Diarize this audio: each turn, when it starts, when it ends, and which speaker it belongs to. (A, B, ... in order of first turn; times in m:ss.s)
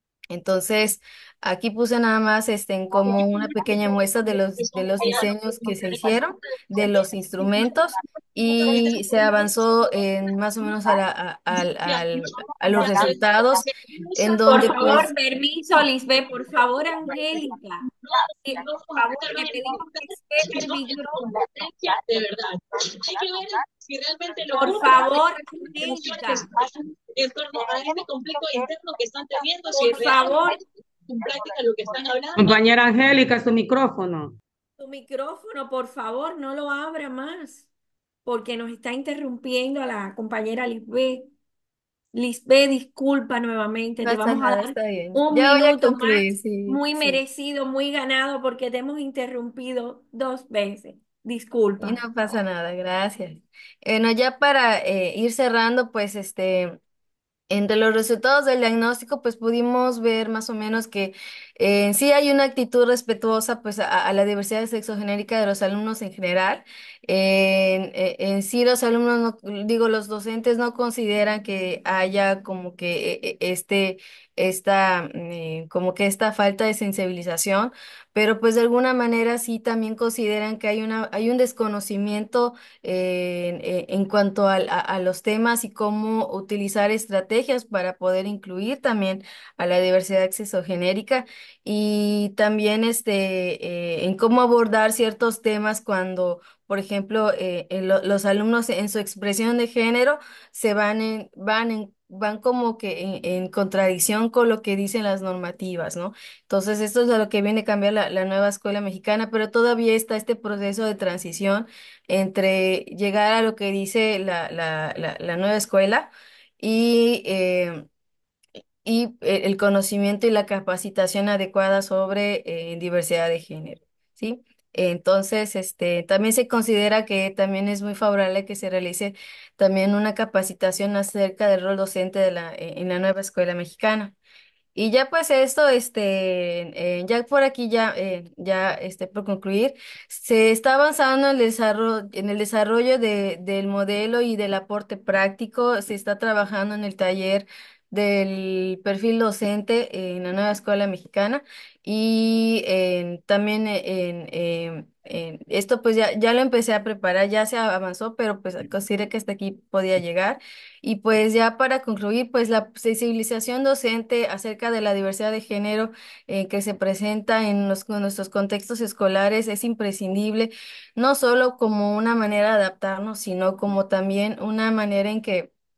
0:00.3-0:13.6 A
0:03.1-0:07.6 B
0:08.5-0:09.6 B
0:10.6-0:10.9 B
0:11.5-0:15.1 B
0:14.2-0:15.1 A
0:14.4-0:17.8 C
0:18.0-0:30.6 B
0:18.4-0:21.2 C
0:24.6-0:26.5 C
0:29.9-0:30.6 C
0:31.1-0:32.6 B
0:32.4-0:34.4 D
0:34.8-0:37.7 C
0:38.2-0:41.3 C
0:42.1-0:52.0 C
0:44.0-0:47.2 A
0:51.8-0:56.8 A
0:57.5-1:57.8 A
1:58.8-2:14.1 A
2:14.7-2:55.5 A